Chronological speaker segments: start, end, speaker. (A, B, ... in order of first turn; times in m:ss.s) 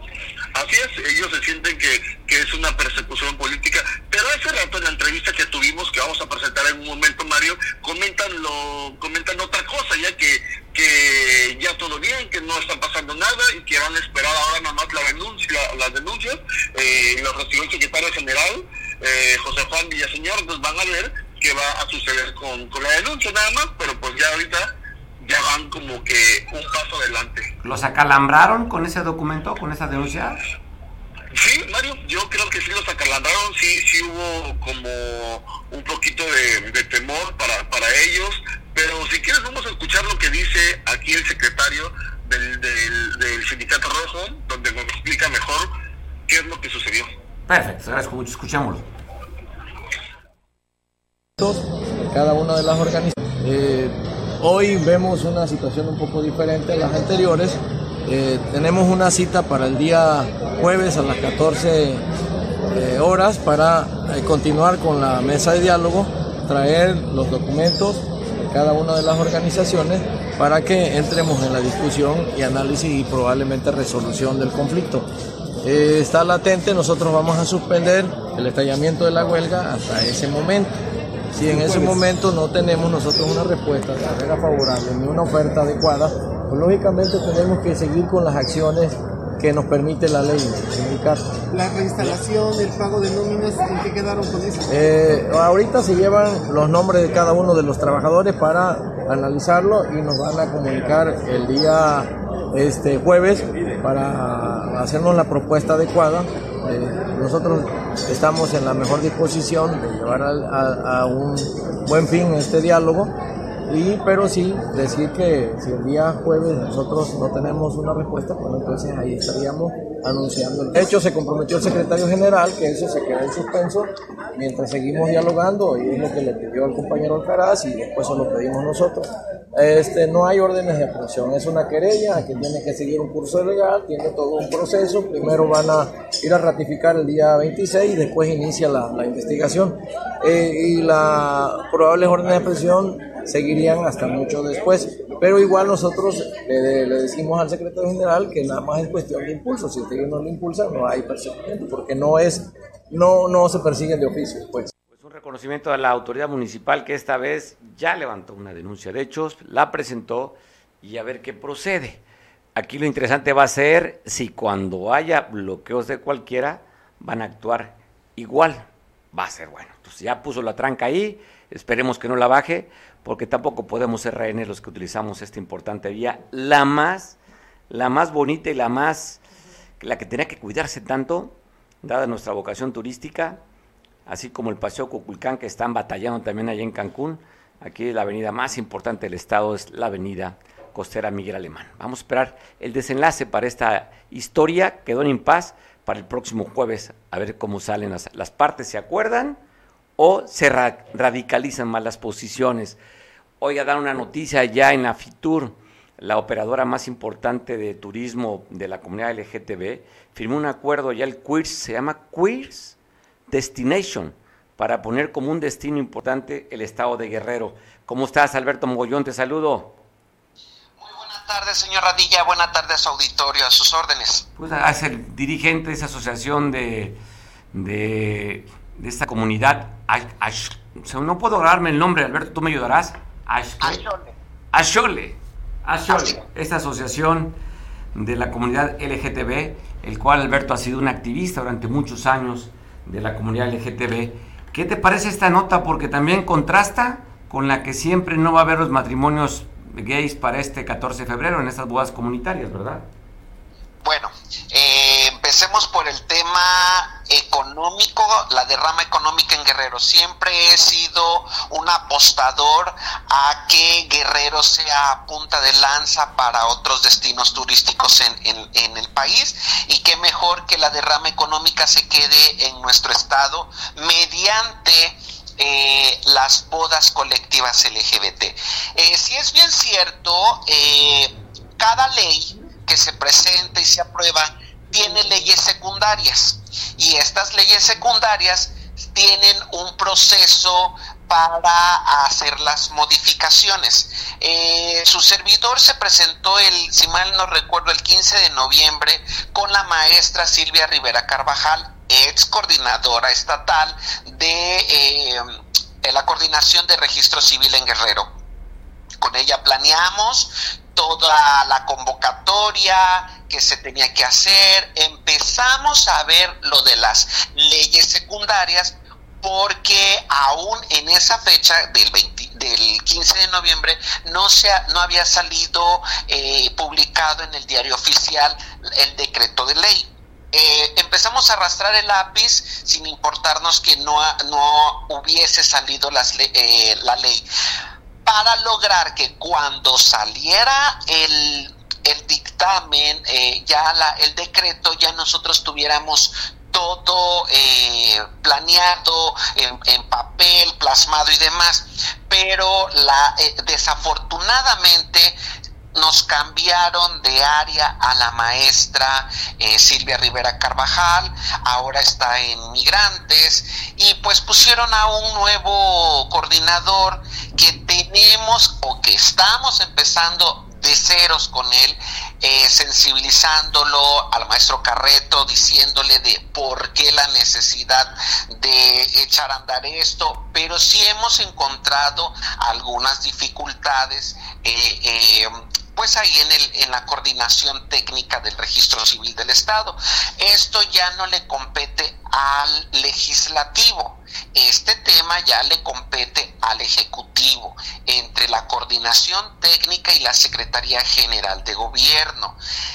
0:00.6-0:27.5 A
0:27.6-0:30.4 B
0:31.3-0:45.7 A
0:46.3-0:47.1 A
0:47.5-0:48.9 B
0:51.4-1:02.0 C
1:02.7-1:15.1 C
1:15.6-1:20.7 C
1:21.3-1:31.3 C
1:21.4-1:22.0 D
1:31.5-1:34.7 D
1:34.7-1:53.1 C
1:53.7-2:34.7 C
2:34.9-2:42.0 B
2:42.6-2:57.2 B
2:57.7-2:59.2 B
2:59.8-3:03.4 B
3:04.1-3:19.4 B
3:20.0-3:22.8 B
3:23.4-3:32.8 B
3:33.3-3:39.8 B
3:40.8-3:44.3 E
3:44.4-3:47.0 B
3:47.5-3:53.8 B
3:53.6-3:54.1 E
3:54.5-3:57.4 B
3:55.9-3:56.2 E
3:58.0-4:12.9 B
4:13.8-5:08.1 E
5:09.0-5:37.2 E
5:38.0-5:55.2 E
5:55.8-6:42.4 E